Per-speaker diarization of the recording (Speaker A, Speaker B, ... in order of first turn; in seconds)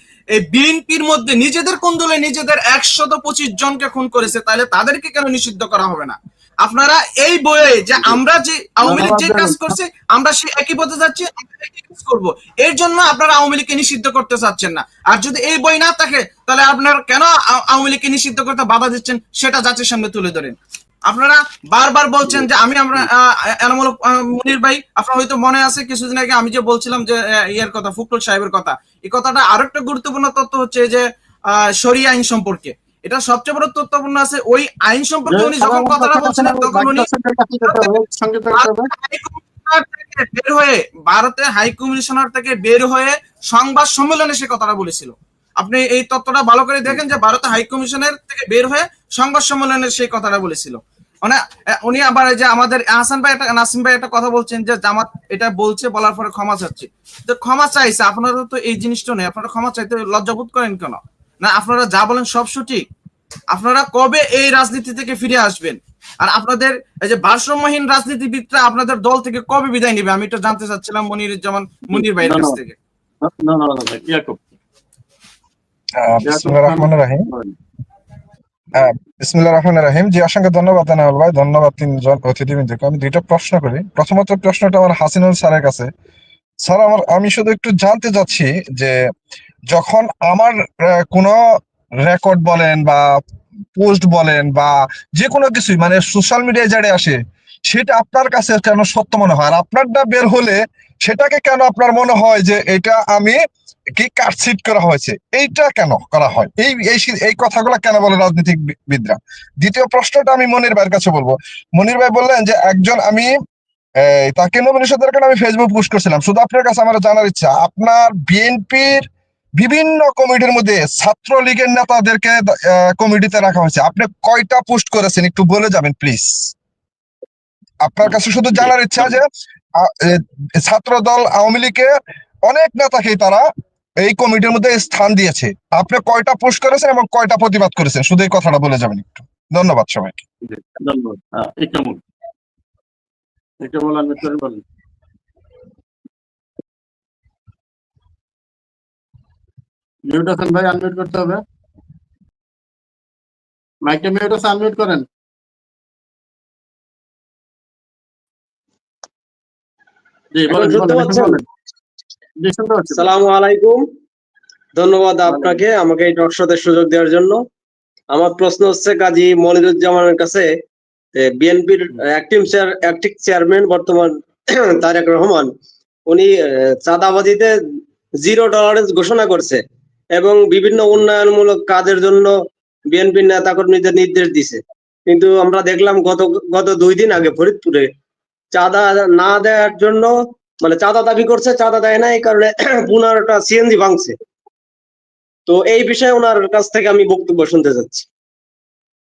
Speaker A: 0.3-20.6, 21.1-37.1, 37.6-37.9, 38.6-62.8, 63.5-72.8
Speaker B: 8.8-9.8, 35.3-38.9, 71.9-72.6, 73.2-74.4, 76.2-77.5, 140.4-142.0, 143.6-144.6, 150.1-151.4, 153.8-155.1, 160.3-161.4, 162.4-163.1, 165.3-165.6
Speaker C: 76.0-77.3, 78.8-85.9, 86.7-89.0, 89.7-91.4, 92.0-93.2, 93.8-103.4, 104.0-113.3, 114.0-119.1, 119.6-126.3, 127.8-129.2, 129.8-131.9, 132.5-133.4, 134.0-140.2
Speaker D: 160.5-161.4, 162.9-163.8, 164.8-167.4, 168.1-170.5, 171.2-174.1, 174.7-175.5, 176.1-177.5, 178.2-179.6, 180.1-182.3, 182.9-187.9, 188.5-194.2, 195.5-198.1